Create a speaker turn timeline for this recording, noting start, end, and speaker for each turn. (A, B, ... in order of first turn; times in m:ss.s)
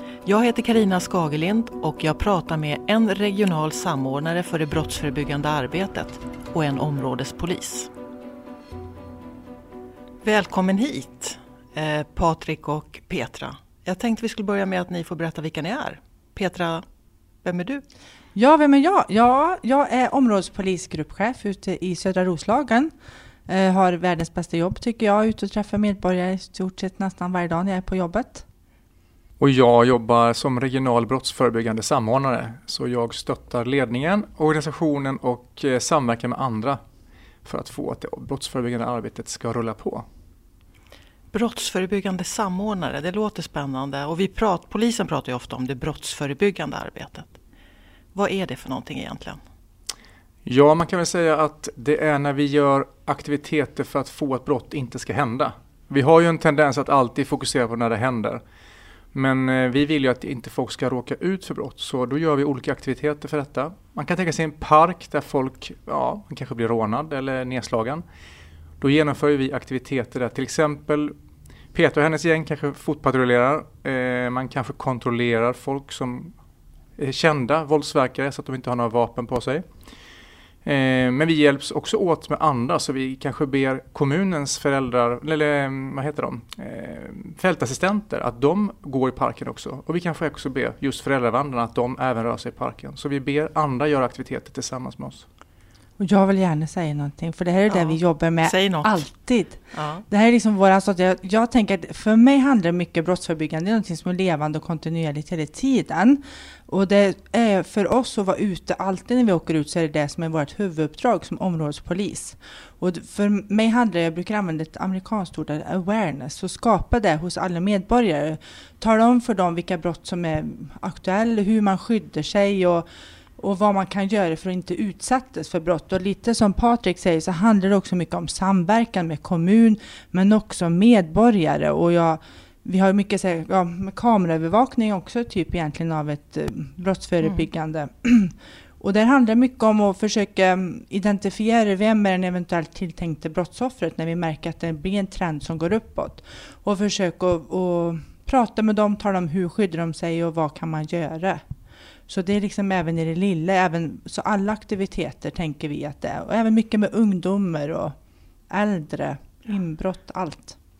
0:00.2-0:07.9 A
0:10.2-0:16.8 A
0:17.4-0:17.8 A
0:18.4-0:22.9 B
0:23.5-0:28.4 B
0:29.4-0:36.8 C
0:37.4-0:40.0 C
0:41.3-0:47.4 A
0:48.1-0:49.4 A
0:50.4-0:58.4 C
0:59.1-1:08.0 C
1:08.8-1:11.1 C
1:11.7-1:16.3 C
1:17.0-1:19.6 C
1:20.6-1:35.2 C
1:36.0-2:02.8 B
1:37.7-1:39.1 A
1:39.7-1:40.0 A
2:03.4-2:31.4 B
2:32.1-2:38.0 B
2:38.5-2:40.6 B